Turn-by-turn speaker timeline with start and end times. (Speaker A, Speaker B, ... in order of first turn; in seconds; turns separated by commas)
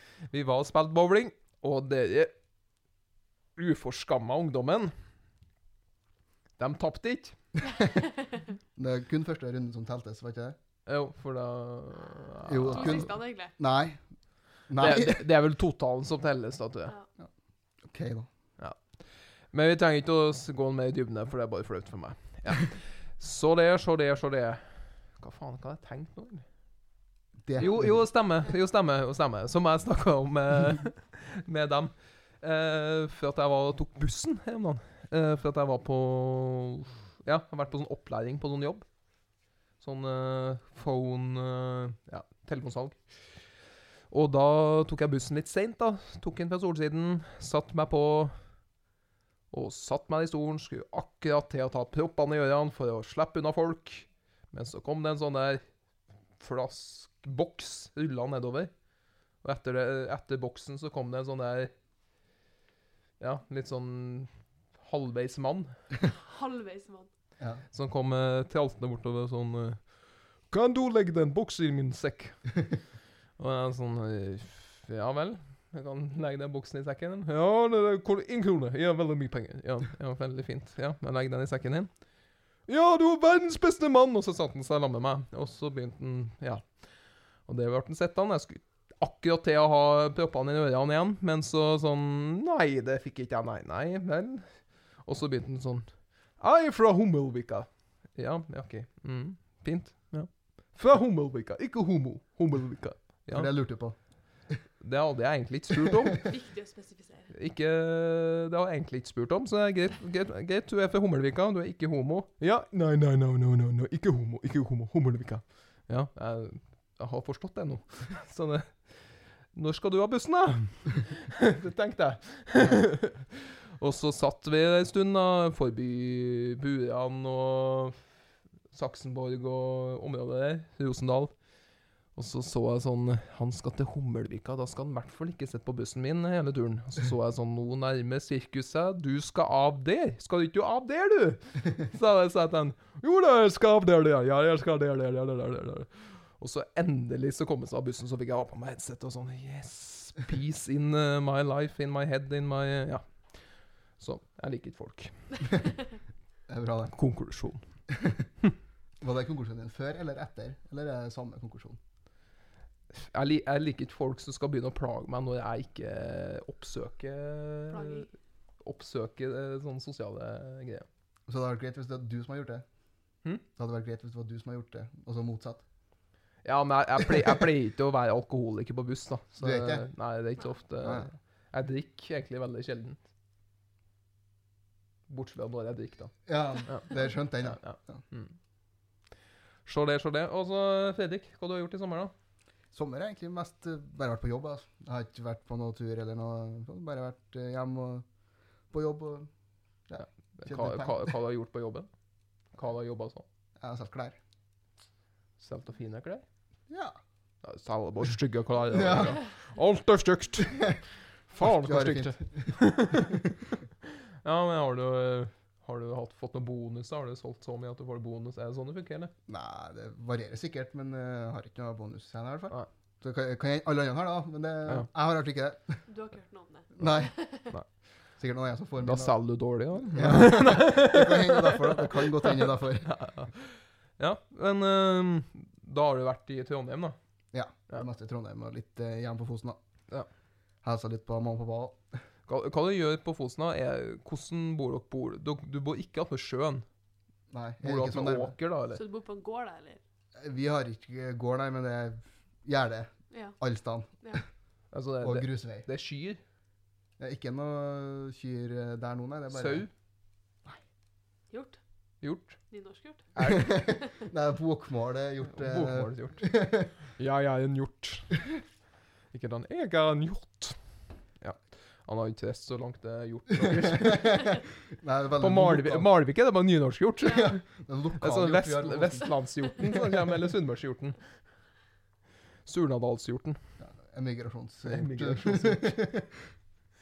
Speaker A: 0.3-2.3, Speaker A: 3.6-4.9, Speaker A: 6.6-7.4, Speaker B: 8.8-10.6, Speaker A: 10.9-13.1, Speaker B: 12.5-14.0, Speaker C: 12.6-13.6, Speaker B: 14.6-15.2, Speaker A: 14.8-16.9, Speaker B: 17.8-18.3, Speaker A: 18.6-19.0, Speaker A: 19.5-26.4, Speaker B: 27.4-28.1, Speaker A: 27.6-38.9, Speaker A: 39.8-43.0, Speaker A: 44.1-48.4, Speaker A: 49.5-55.6, Speaker A: 56.4-58.7, Speaker A: 59.4-61.7, Speaker A: 63.2-65.8, Speaker C: 66.1-67.1, Speaker A: 67.7-72.7, Speaker A: 73.4-81.9, Speaker A: 82.7-86.8, Speaker A: 87.4-103.6, Speaker B: 103.3-104.0, Speaker A: 104.8-106.2, Speaker C: 106.2-107.3, Speaker A: 107.3-128.1, Speaker A: 128.7-131.4, Speaker A: 132.1-153.4, Speaker A: 154.0-155.4, Speaker B: 156.5-156.9, Speaker A: 156.9-157.6, Speaker B: 157.9-158.2, Speaker B: 159.0-161.8, Speaker A: 162.9-168.1, Speaker C: 167.7-168.1, Speaker A: 168.6-170.9, Speaker B: 171.3-172.6, Speaker B: 173.6-175.6, Speaker A: 176.4-183.0, Speaker B: 179.4-179.9, Speaker B: 180.8-181.1, Speaker A: 185.1-188.4, Speaker B: 186.3-188.0, Speaker A: 189.7-192.1, Speaker B: 192.7-198.1, Speaker B: 198.7-199.3, Speaker B: 199.9-201.1, Speaker A: 200.3-201.9, Speaker A: 202.5-203.2, Speaker B: 203.6-204.2, Speaker A: 205.4-206.2, Speaker B: 206.7-206.9, Speaker A: 207.4-210.8, Speaker B: 208.7-209.2, Speaker A: 211.3-213.2, Speaker B: 211.4-213.2, Speaker A: 214.2-219.1, Speaker B: 219.3-225.8, Speaker C: 225.9-227.5, Speaker B: 226.8-227.1, Speaker B: 228.2-229.2, Speaker A: 228.8-237.0, Speaker B: 229.8-233.0, Speaker B: 237.3-239.6, Speaker B: 240.6-241.8, Speaker A: 242.3-246.7, Speaker B: 247.3-248.3, Speaker A: 247.6-248.8, Speaker C: 248.7-249.8, Speaker B: 250.2-254.2, Speaker C: 253.1-253.4, Speaker C: 254.0-254.2, Speaker A: 254.7-256.2, Speaker B: 255.0-255.7, Speaker B: 257.0-259.7, Speaker A: 259.3-259.7, Speaker C: 261.3-261.6, Speaker A: 262.0-262.4, Speaker C: 262.5-263.9, Speaker A: 263.1-263.5, Speaker B: 263.2-266.7, Speaker A: 265.2-268.2, Speaker A: 269.1-274.3, Speaker B: 273.4-275.9, Speaker A: 275.2-277.4, Speaker B: 277.1-279.8, Speaker A: 278.0-281.0, Speaker A: 282.5-283.4, Speaker B: 283.6-286.3, Speaker A: 284.7-285.8